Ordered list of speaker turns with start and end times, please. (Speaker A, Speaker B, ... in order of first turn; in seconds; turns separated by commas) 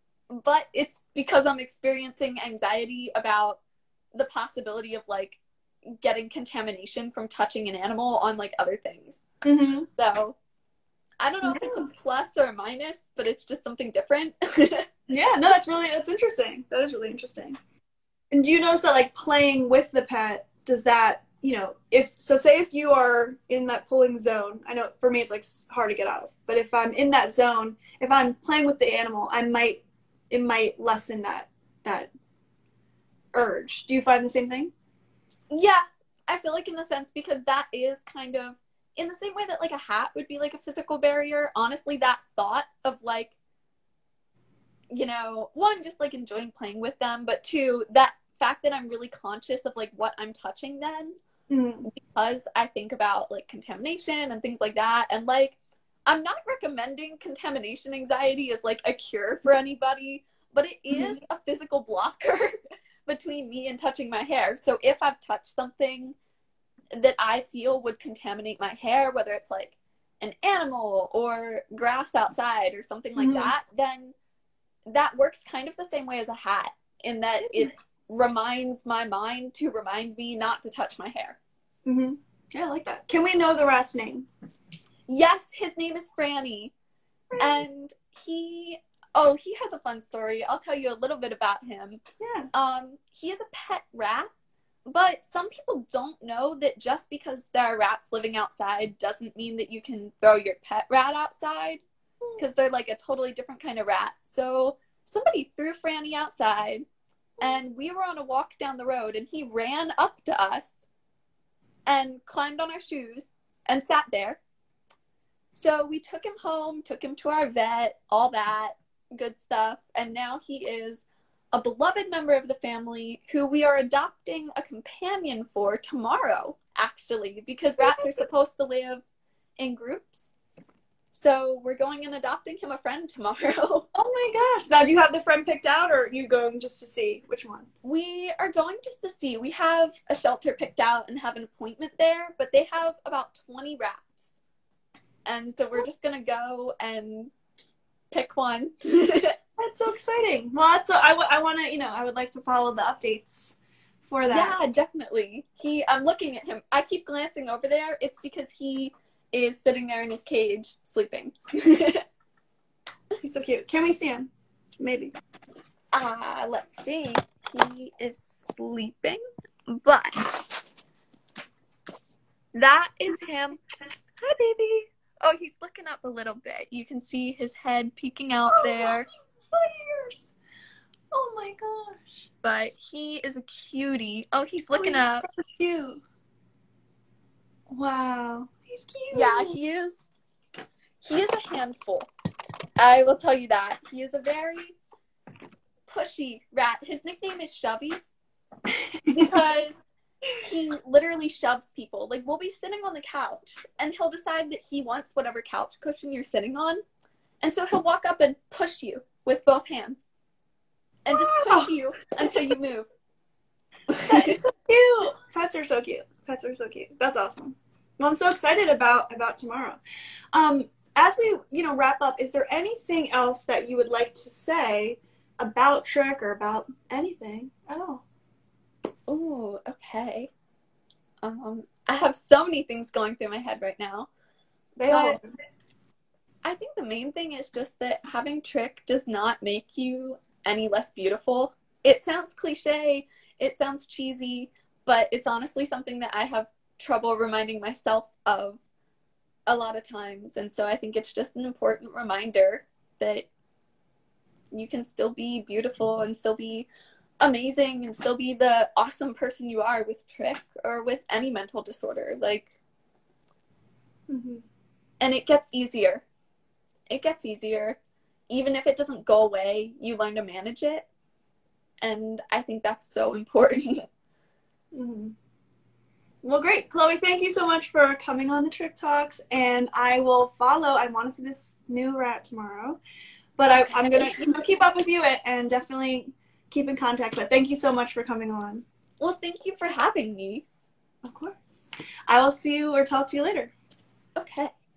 Speaker A: 0.3-3.6, Speaker A: 4.1-5.4, Speaker A: 6.0-9.2, Speaker B: 9.4-9.9, Speaker A: 10.0-10.3, Speaker A: 11.2-14.9, Speaker B: 11.4-11.8, Speaker B: 15.1-17.6, Speaker B: 18.3-32.1, Speaker B: 33.3-34.7, Speaker A: 35.5-43.3, Speaker A: 44.9-51.2, Speaker B: 51.5-51.9, Speaker A: 51.9-66.2, Speaker B: 60.9-61.2, Speaker A: 66.9-74.1, Speaker B: 73.2-73.5, Speaker A: 74.8-81.4, Speaker B: 81.8-84.3, Speaker A: 85.1-86.7, Speaker B: 87.3-87.6, Speaker A: 87.4-92.0, Speaker B: 92.2-92.5, Speaker A: 92.5-94.3, Speaker A: 94.8-101.8, Speaker A: 102.4-106.8, Speaker A: 107.4-110.8, Speaker A: 111.9-114.4, Speaker A: 115.5-129.0, Speaker B: 127.9-128.2, Speaker A: 129.6-130.3, Speaker A: 131.1-133.9, Speaker B: 133.9-137.7, Speaker A: 137.8-144.3, Speaker A: 145.2-147.3, Speaker A: 148.1-149.4, Speaker B: 149.6-153.6, Speaker B: 154.1-154.6, Speaker A: 154.3-162.1, Speaker B: 163.2-165.1, Speaker A: 165.9-170.5, Speaker A: 172.5-179.1, Speaker B: 178.5-180.3, Speaker B: 181.1-182.2, Speaker A: 182.4-185.3, Speaker B: 184.8-186.0, Speaker B: 187.7-189.6, Speaker A: 189.1-190.0, Speaker A: 191.0-192.1, Speaker A: 192.8-194.8, Speaker A: 195.8-198.0, Speaker B: 199.1-199.4, Speaker A: 199.2-199.8, Speaker A: 200.4-206.8, Speaker A: 207.4-210.1, Speaker A: 211.1-212.9, Speaker B: 211.1-211.7, Speaker A: 213.9-214.3, Speaker B: 214.0-219.8, Speaker B: 220.3-228.0, Speaker A: 229.1-230.3, Speaker A: 231.2-234.1, Speaker B: 234.8-235.2, Speaker A: 234.9-235.2, Speaker A: 236.4-248.6, Speaker A: 249.5-253.3, Speaker A: 254.5-256.7, Speaker A: 257.2-262.5, Speaker B: 264.1-264.4, Speaker A: 265.0-266.0, Speaker A: 266.9-267.8, Speaker A: 268.3-270.9, Speaker A: 271.8-273.9, Speaker B: 274.7-275.1, Speaker B: 276.2-282.8, Speaker B: 283.4-288.6, Speaker A: 283.6-284.3, Speaker A: 289.0-290.4, Speaker B: 291.0-293.5, Speaker A: 294.2-294.5